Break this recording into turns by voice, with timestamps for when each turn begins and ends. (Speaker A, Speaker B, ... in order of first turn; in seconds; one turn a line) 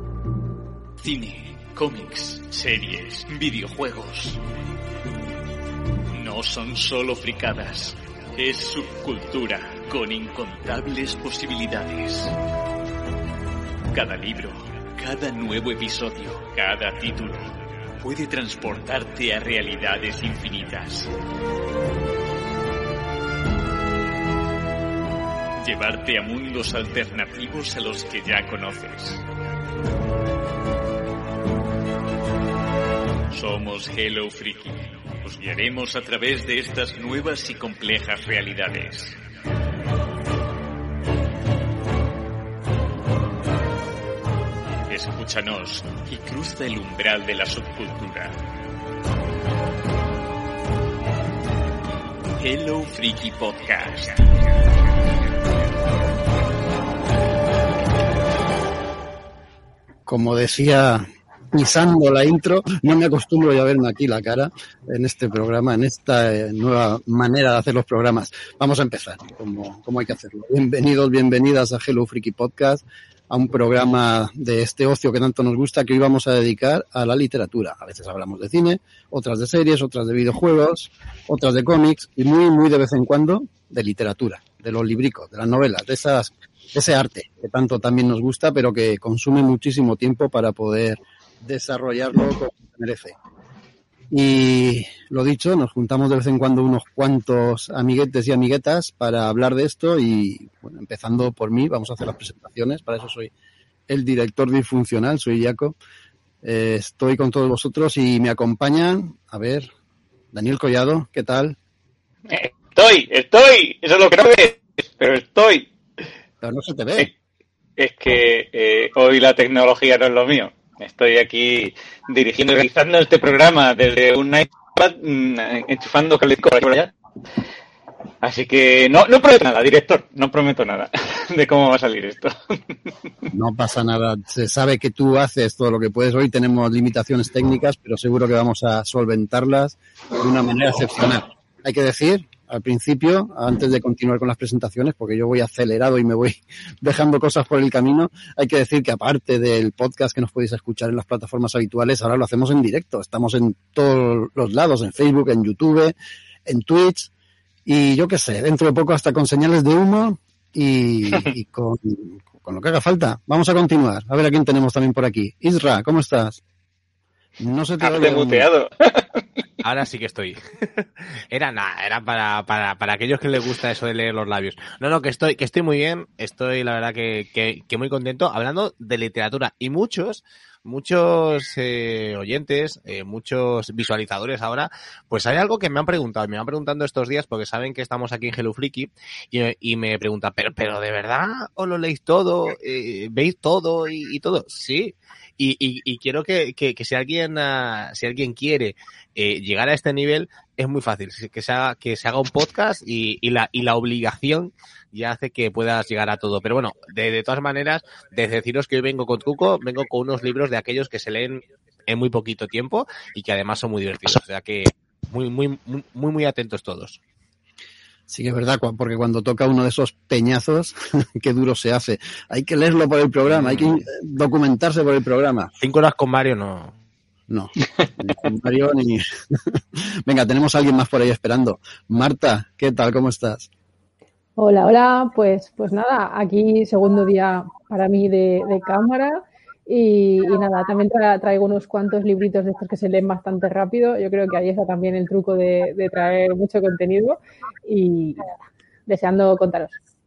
Speaker A: 1.0-4.4
Speaker A: 6.1-12.3
Speaker A: 13.9-21.1
Speaker A: 25.6-29.2
Speaker A: 33.3-39.2
Speaker A: 44.8-48.4
Speaker A: 52.4-54.7
Speaker B: 60.1-93.2
Speaker B: 94.1-103.3
Speaker B: 103.9-105.8
Speaker B: 106.4-109.7
Speaker B: 110.3-111.6
Speaker C: 112.3-115.7
Speaker B: 116.4-117.1
Speaker C: 117.8-126.9
Speaker C: 128.2-132.6
Speaker B: 133.3-155.9
Speaker B: 156.4-157.1
Speaker B: 157.7-166.4
Speaker B: 167.4-168.5
Speaker C: 167.8-169.2
Speaker D: 169.6-217.0
Speaker B: 218.1-225.5
Speaker D: 223.3-223.8
Speaker D: 225.6-226.7
Speaker B: 227.3-233.5
Speaker E: 234.4-248.2
Speaker E: 248.9-249.8